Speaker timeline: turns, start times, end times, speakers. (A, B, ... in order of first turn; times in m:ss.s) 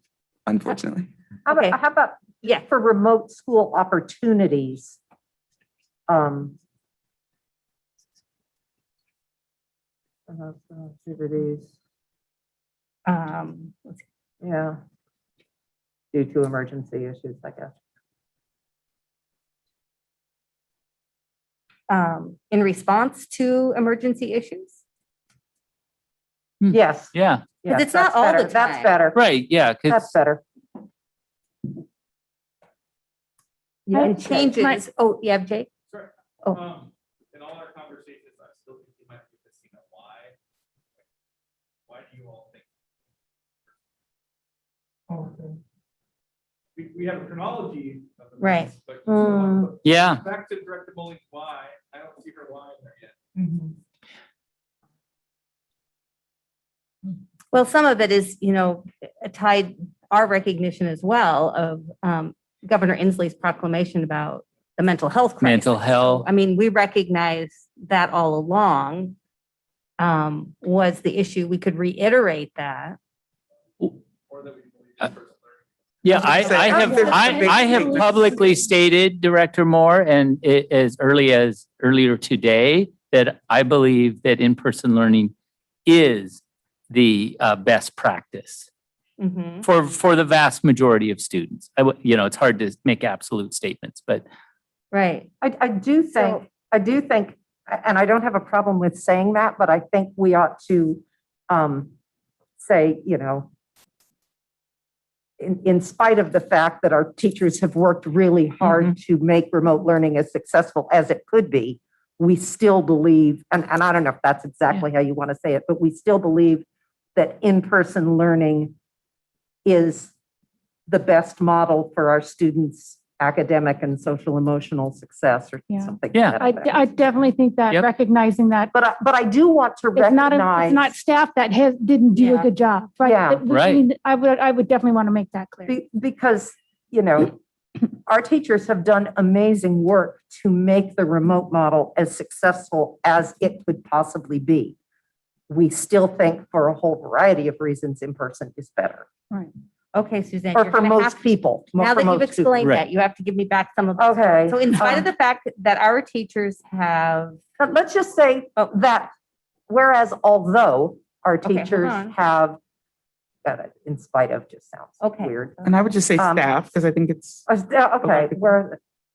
0:00.5-0:01.1 A
0:01.4-0:05.0 B
0:01.5-0:01.7 C
0:06.1-0:06.5 B
0:10.3-0:11.7 B
0:13.1-0:14.0 C
0:14.4-0:14.8 B
0:16.1-0:17.7 B
0:21.9-0:24.8 C
0:26.6-0:27.4 D
0:26.7-0:29.2 B
0:27.7-0:28.9 C
0:29.1-0:30.1 D
0:29.9-0:30.4 B
0:33.9-0:34.6 B
0:33.9-0:34.8 E
0:33.9-0:35.7 C
0:35.9-0:40.3 F
0:41.9-0:42.6 F
0:46.8-0:53.1 F
0:48.4-0:48.7 C
0:49.1-0:49.7 B
0:49.8-0:50.2 D
0:57.5-1:09.2 C
1:05.4-1:06.2 D
1:10.0-1:13.0 C
1:14.3-1:15.6 F
1:16.0-1:25.3 D
1:16.1-1:18.3 A
1:16.2-1:17.0 F
1:16.8-1:18.0 E
1:17.1-1:17.4 B
1:25.8-1:28.7 D
1:29.2-1:29.6 C
1:29.6-1:34.2 D
1:34.9-1:35.3 C
1:35.4-1:41.9 B
1:36.1-1:36.4 C
1:42.6-1:43.5 B
1:45.4-1:58.7 B
1:59.6-2:00.1 B
2:00.9-2:07.0 B
2:05.7-2:08.7 E
2:08.7-2:10.9 B
2:10.0-2:15.7 E
2:12.1-2:12.5 C
2:13.0-2:13.4 B
2:13.5-2:13.8 D
2:15.7-2:17.4 B
2:18.1-2:24.8 B
2:25.5-2:29.1 B
2:29.9-2:31.2 C
2:30.5-2:32.6 B
2:31.8-2:37.4 C
2:34.0-2:35.0 B
2:37.6-2:39.1 B
2:39.7-2:42.6 B
2:41.4-2:42.1 C
2:43.4-2:45.6 B
2:45.0-2:45.5 C
2:45.6-2:47.5 A
2:46.2-2:46.5 B
2:47.5-2:48.8 B
2:48.0-2:48.5 A